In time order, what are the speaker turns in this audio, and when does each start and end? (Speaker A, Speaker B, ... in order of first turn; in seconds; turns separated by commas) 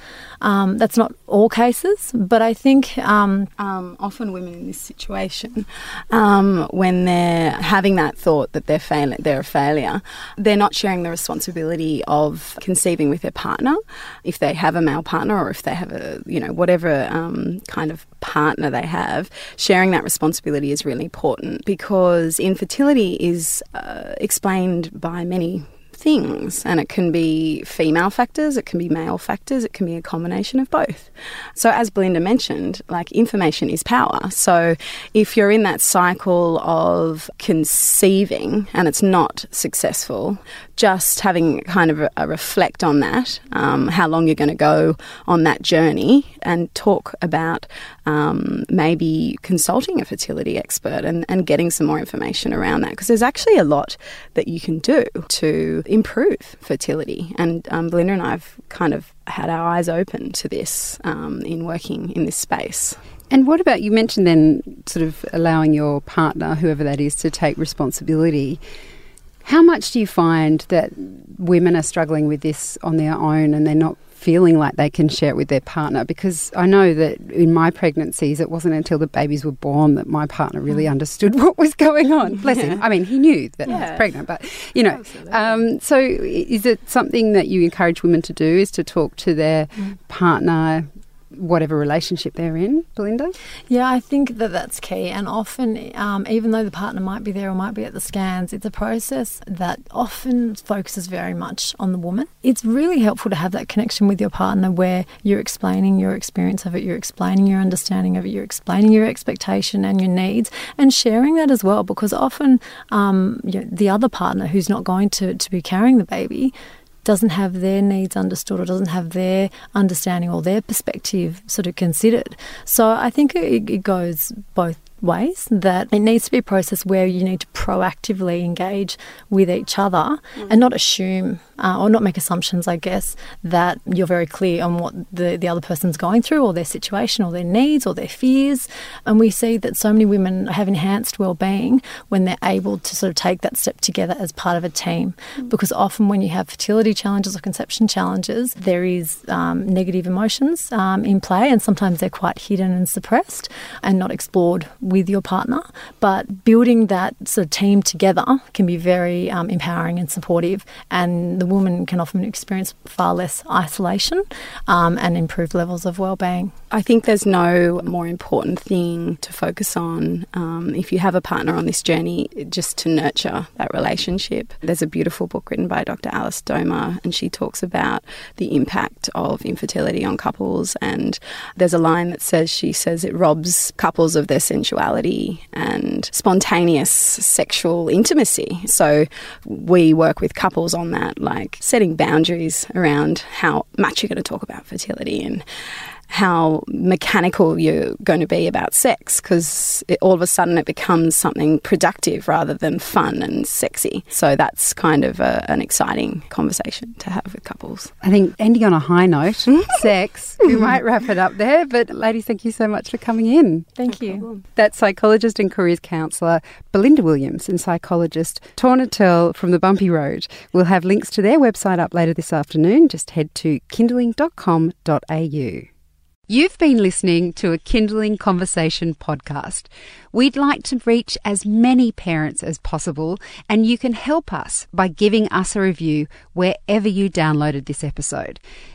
Speaker A: 0.4-3.5, Speaker B: 3.6-63.0, Speaker C: 63.3-68.6, Speaker C: 69.4-93.3, Speaker B: 82.5-82.8, Speaker B: 83.6-84.2, Speaker B: 84.9-85.6, Speaker A: 93.7-116.5, Speaker A: 117.0-166.5, Speaker B: 166.7-195.4, Speaker B: 196.1-207.9, Speaker C: 208.0-213.8, Speaker A: 213.8-214.3, Speaker B: 213.9-214.4, Speaker C: 214.6-225.7, Speaker C: 226.3-238.4